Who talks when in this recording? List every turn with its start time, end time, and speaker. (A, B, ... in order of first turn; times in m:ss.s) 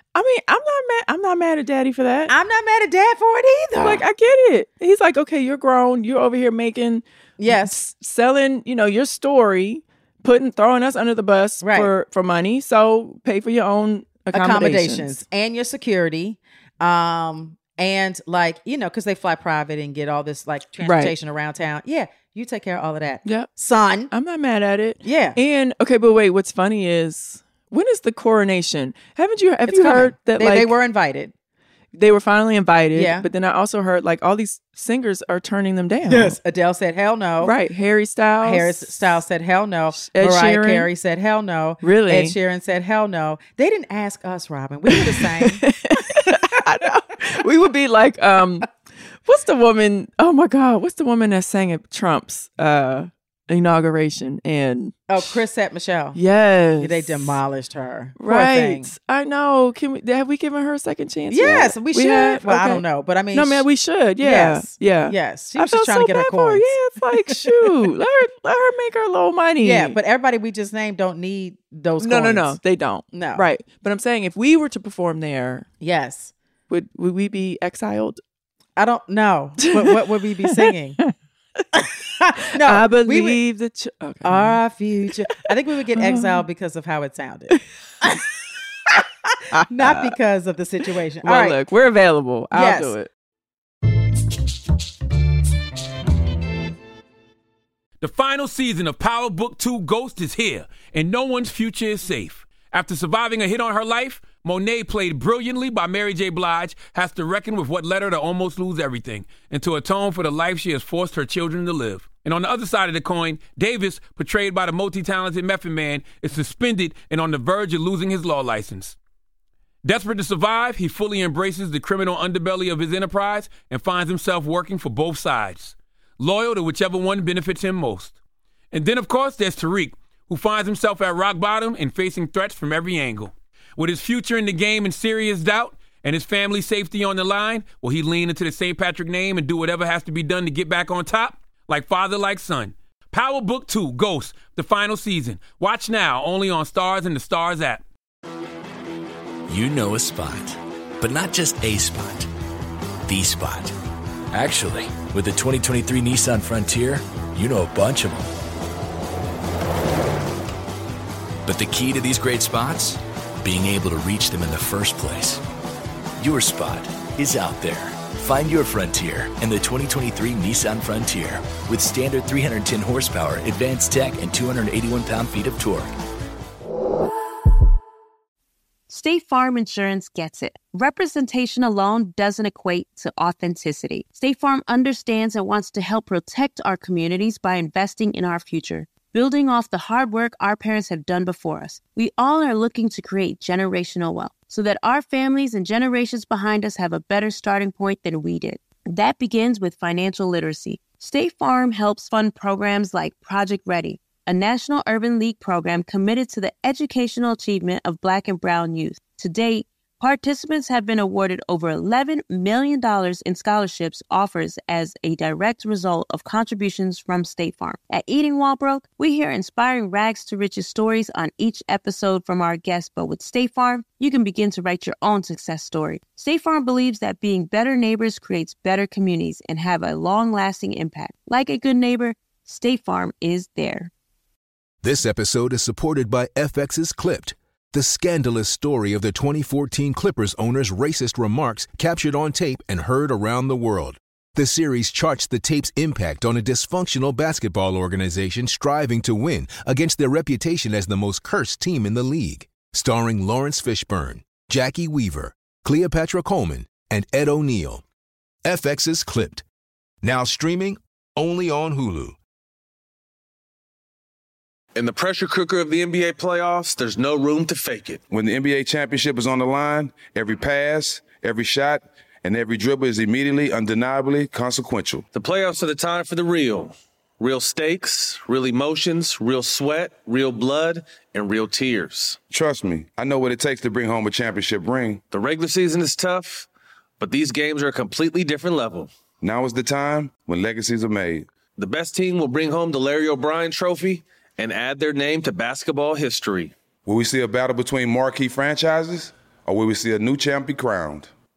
0:00.1-0:02.3 A
0:02.3-0:04.0 B
0:03.8-0:15.2 A
0:07.4-0:07.7 B
0:11.6-0:11.9 B
0:14.3-0:24.1 B
0:20.8-0:21.1 A
0:23.2-0:23.5 A
0:24.1-0:30.7 A
0:25.0-0:25.4 B
0:29.7-0:31.3 B
0:31.9-0:36.4 A
0:32.9-0:33.3 B
0:36.1-0:37.5 B
0:37.4-0:38.9 A
0:38.4-0:45.6 B
0:39.9-0:40.9 A
0:41.8-0:42.4 A
0:44.9-0:48.7 A
0:49.3-0:55.2 A
0:55.1-0:56.2 B
0:56.1-0:57.4 A
0:56.8-0:58.9 B
0:58.2-1:10.0 A
1:01.3-1:03.6 B
1:04.2-1:06.7 B
1:09.6-1:12.6 B
1:12.0-1:15.7 A
1:13.1-1:13.4 B
1:15.8-1:16.3 B
1:16.7-1:18.2 A
1:18.8-1:21.0 B
1:19.6-1:21.6 A
1:21.7-1:23.4 B
1:22.6-1:24.6 A
1:24.2-1:28.3 B
1:25.2-1:26.4 A
1:29.3-1:31.6 B
1:29.5-1:30.2 A
1:31.2-1:33.1 A
1:32.5-1:32.9 B
1:38.0-1:59.0 C
1:59.8-2:08.2 C
2:08.7-2:27.8 C
2:29.5-2:32.3 D
2:33.0-2:33.7 D
2:34.3-2:38.3 D
2:41.4-2:45.4 D
2:46.2-2:55.9 D
2:58.9-3:53.9 E
3:54.8-4:17.8 F
4:18.4-4:19.4 F
4:20.0-4:22.2 F
4:24.7-4:28.0 G
4:28.1-4:35.0 H
4:35.1-4:42.2 G
4:42.3-4:45.0 H
4:45.1-4:46.5 G
4:47.0-4:48.9 G
4:49.2-4:51.3 H
4:51.6-4:56.5 G
4:56.8-5:01.1 H